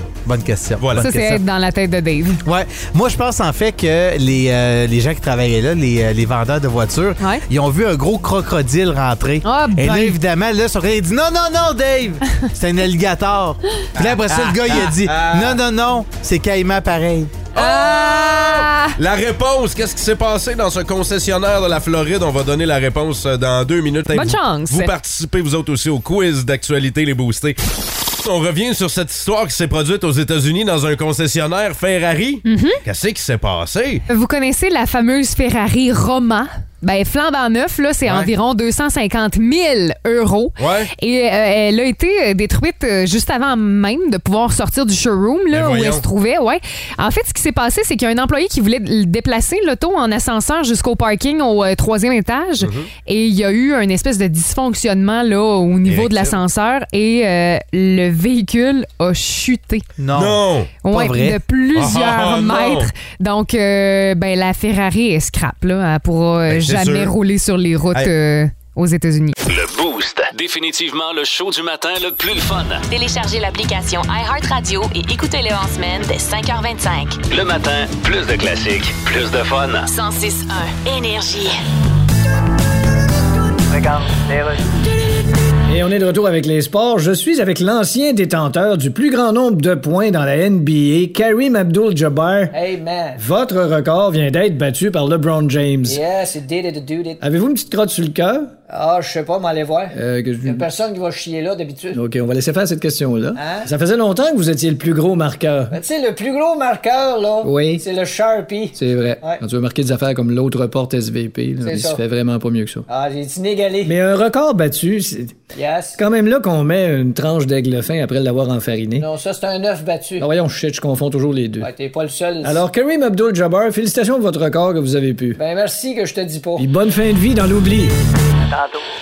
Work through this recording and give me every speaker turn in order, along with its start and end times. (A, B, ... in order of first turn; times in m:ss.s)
0:00.2-0:01.4 A
0:00.8-0:01.1 B
0:01.0-0:02.4 C
0:02.4-0:17.3 A
0:09.4-0:10.2 C
0:14.0-0:15.6 B
0:17.5-0:19.0 C
0:17.5-0:34.0 B
0:24.1-0:24.9 C
0:32.4-0:32.8 C
0:34.1-0:59.9 C
0:38.0-0:38.3 B
0:40.6-0:40.9 B
0:45.5-0:46.0 B
0:52.6-0:52.9 B
0:55.8-0:56.4 B
1:00.0-1:01.4 A
1:00.1-1:00.7 B
1:00.8-1:09.3 C
1:01.7-1:02.9 B
1:06.5-1:07.1 B
1:09.4-1:12.8 D
1:12.9-1:17.2 E
1:17.3-1:19.9 D
1:19.9-1:21.6 E
1:23.7-1:24.6 F
1:25.7-1:32.5 G
1:32.5-1:33.2 F
1:33.2-1:36.0 G
1:35.8-1:37.2 F
1:37.2-1:38.5 G
1:38.7-1:42.0 F
1:39.9-1:40.7 G
1:41.9-1:45.8 G
1:43.3-1:43.7 F
1:45.7-1:49.4 F
1:47.4-1:47.8 G
1:48.8-1:52.8 G
1:51.6-1:52.0 F
1:52.9-1:54.0 F
1:53.8-1:55.3 G
1:55.5-1:56.0 F
1:56.0-1:59.1 G
1:59.0-2:00.3 F
2:00.2-2:01.7 G
2:01.6-2:02.7 F
2:02.4-2:05.4 G
2:05.4-2:06.7 F
2:06.6-2:07.9 G
2:08.5-2:08.8 F